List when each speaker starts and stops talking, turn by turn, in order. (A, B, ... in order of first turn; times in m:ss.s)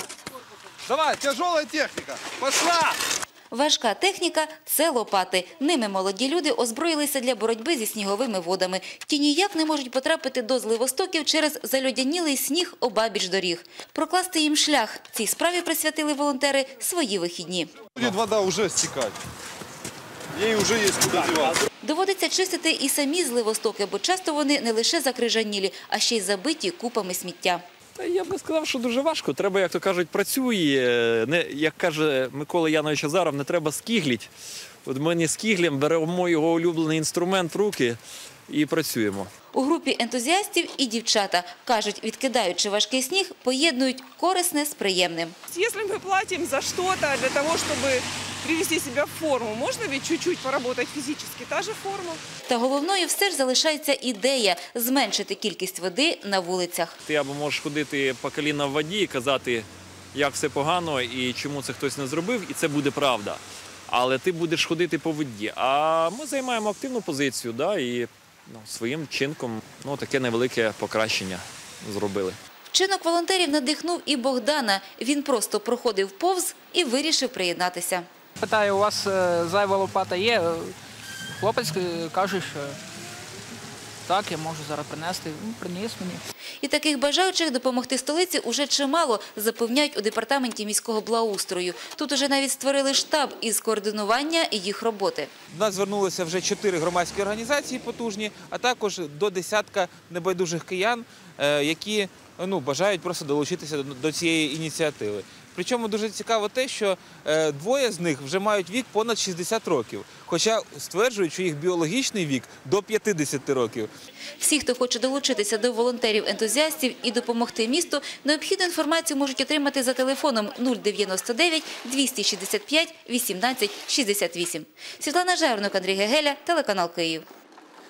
0:01.0-0:02.8 A
0:03.5-0:17.7 B
0:18.0-0:19.2 A
0:20.3-0:21.6 A
0:21.8-0:27.6 B
0:28.0-0:34.3 C
0:34.8-0:39.3 C
0:39.5-0:45.4 B
0:45.5-0:52.2 D
0:52.5-0:57.0 B
0:57.0-1:12.4 C
1:12.7-1:18.0 B
1:18.4-1:20.8 E
1:21.4-1:22.8 E
1:24.0-1:26.2 E
1:26.6-1:35.3 B
1:35.5-1:53.9 F
1:54.4-2:07.2 B